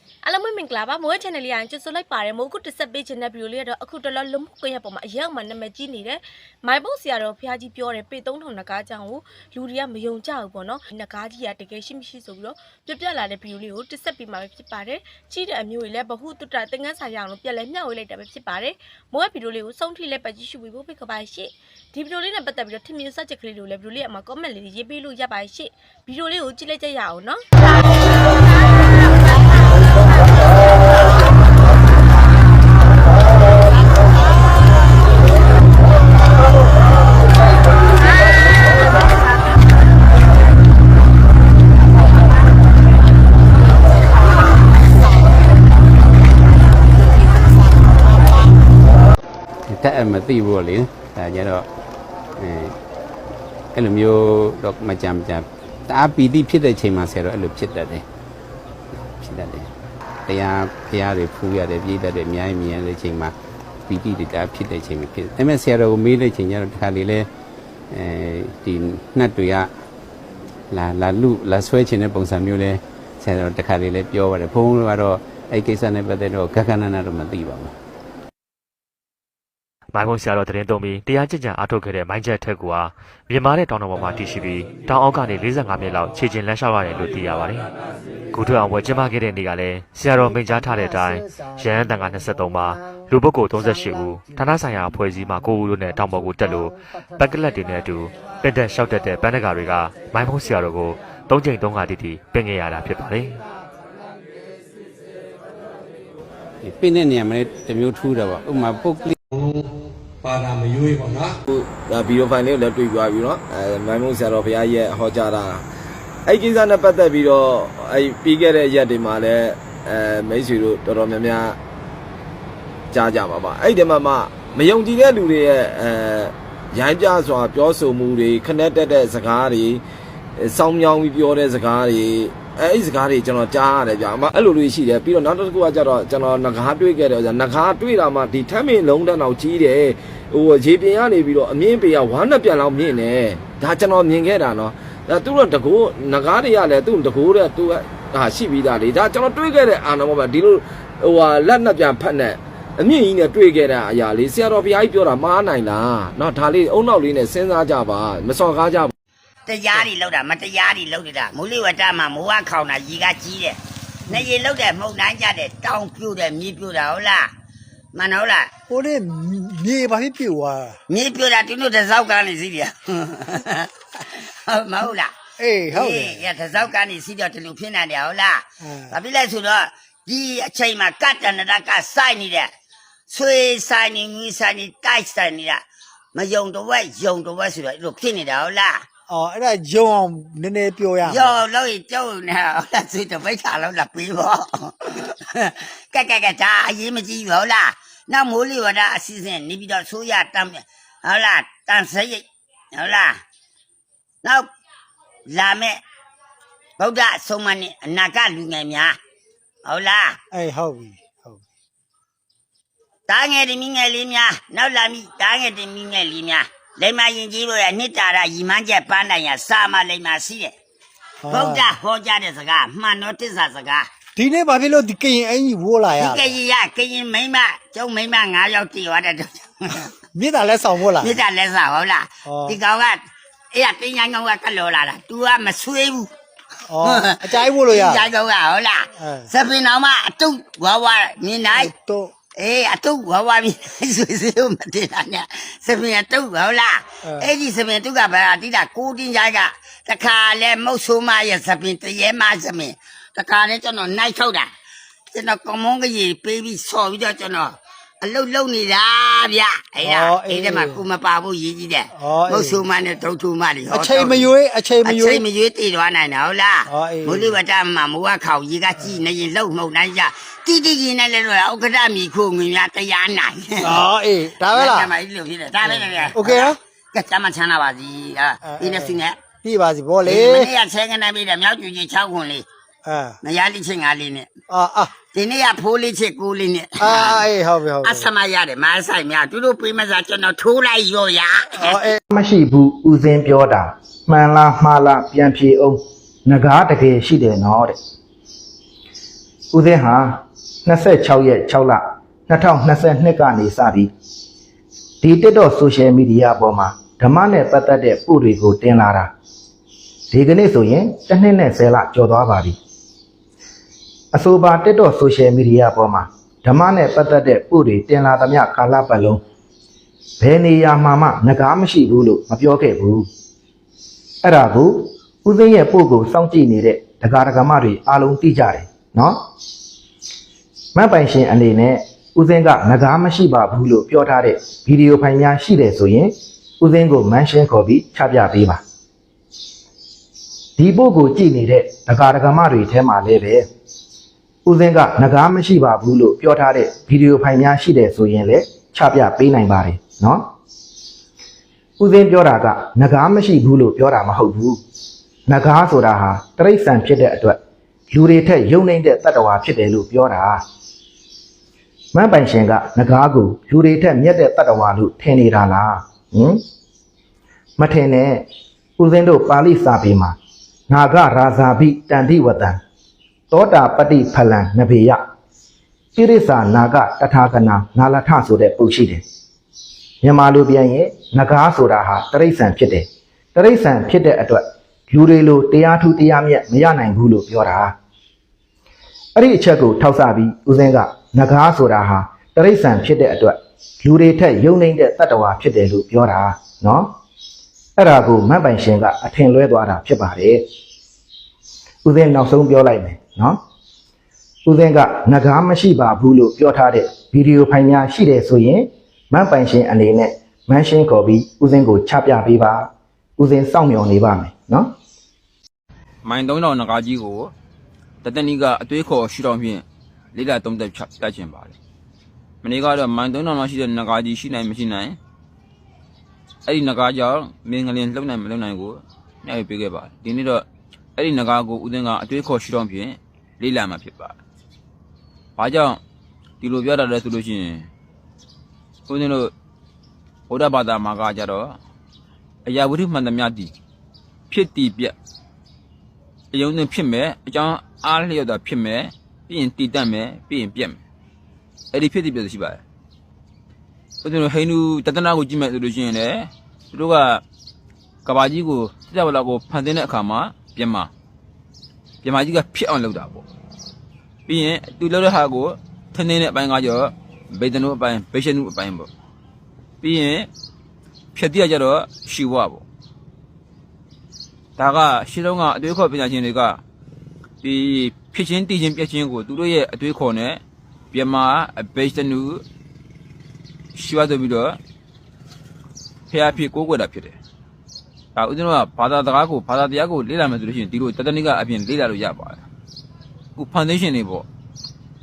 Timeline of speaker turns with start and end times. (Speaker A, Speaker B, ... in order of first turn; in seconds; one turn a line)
Speaker A: 0.2-27.4
Speaker B: 49.7-51.7
Speaker B: 52.4-52.8
Speaker B: 53.7-58.1
Speaker B: 59.2-59.7
Speaker B: 60.2-67.3
Speaker B: 67.9-69.7
Speaker B: 70.7-77.8
Speaker C: 79.9-87.7
Speaker C: 88.3-103.4
Speaker B: 106.6-109.2
Speaker D: 110.3-115.6
Speaker D: 116.3-121.6
Speaker D: 122.9-129.8
Speaker D: 130.4-158.9
Speaker E: 159.5-167.3
Speaker E: 167.9-168.5
Speaker F: 168.7-170.8
Speaker E: 170.9-175.2
Speaker F: 175.4-176.2
Speaker E: 175.7-182.5
Speaker F: 178.6-178.9
Speaker E: 183.1-188.8
Speaker F: 189.1-191.3
Speaker E: 191.0-203.2
Speaker E: 204.2-204.5
Speaker E: 205.3-205.8
Speaker E: 206.8-209.0
Speaker E: 209.6-210.2
Speaker F: 210.3-211.4
Speaker E: 213.1-220.6
Speaker F: 221.2-221.7
Speaker E: 221.3-223.9
Speaker F: 224.2-226.3
Speaker E: 225.9-229.9
Speaker F: 230.1-231.2
Speaker E: 230.8-236.1
Speaker F: 232.3-232.6
Speaker F: 236.7-238.1
Speaker E: 236.8-241.7
Speaker F: 239.0-239.2
Speaker F: 241.5-242.1
Speaker E: 242.4-254.5
Speaker E: 255.1-279.2
Speaker F: 259.8-260.8
Speaker F: 261.9-262.6
Speaker F: 263.7-265.2
Speaker F: 266.7-267.4
Speaker F: 273.6-274.9
Speaker F: 275.6-276.6
Speaker F: 278.4-280.5
Speaker E: 280.0-282.5
Speaker F: 282.9-283.2
Speaker E: 283.2-284.3
Speaker F: 284.5-284.9
Speaker E: 285.0-291.8
Speaker F: 286.8-288.1
Speaker F: 291.6-292.0
Speaker G: 292.1-297.8
Speaker G: 299.5-303.9
Speaker G: 305.0-309.1
Speaker G: 310.1-312.6
Speaker G: 314.1-319.2
Speaker G: 320.2-323.1
Speaker G: 324.2-329.2
Speaker G: 330.8-338.6
Speaker G: 340.6-343.5
Speaker G: 344.5-350.3
Speaker G: 351.8-354.6
Speaker G: 355.3-357.4
Speaker G: 357.9-360.4
Speaker G: 361.9-366.4
Speaker G: 367.6-368.3
Speaker G: 368.8-370.2
Speaker G: 370.7-372.6
Speaker G: 373.3-375.0
Speaker G: 376.0-379.0
Speaker G: 380.0-387.7
Speaker G: 389.2-396.9
Speaker G: 397.8-400.4
Speaker G: 401.9-403.4
Speaker G: 404.5-414.8
Speaker H: 416.0-417.3
Speaker H: 418.0-421.6
Speaker H: 422.4-425.0
Speaker H: 426.5-430.4
Speaker H: 431.0-434.2
Speaker H: 435.4-435.8
Speaker H: 436.4-437.7
Speaker H: 438.9-439.3
Speaker H: 440.3-441.6
Speaker H: 442.4-443.5
Speaker H: 444.3-444.9
Speaker H: 446.3-450.8
Speaker H: 451.7-452.6
Speaker H: 454.0-457.2
Speaker H: 458.1-460.9
Speaker H: 462.0-463.2
Speaker H: 464.3-468.9
Speaker H: 469.8-470.3
Speaker H: 471.1-472.6
Speaker H: 474.6-476.6
Speaker H: 477.4-480.4
Speaker H: 480.9-482.4
Speaker H: 483.8-484.6
Speaker H: 486.1-487.2
Speaker H: 488.2-492.4
Speaker H: 493.4-494.3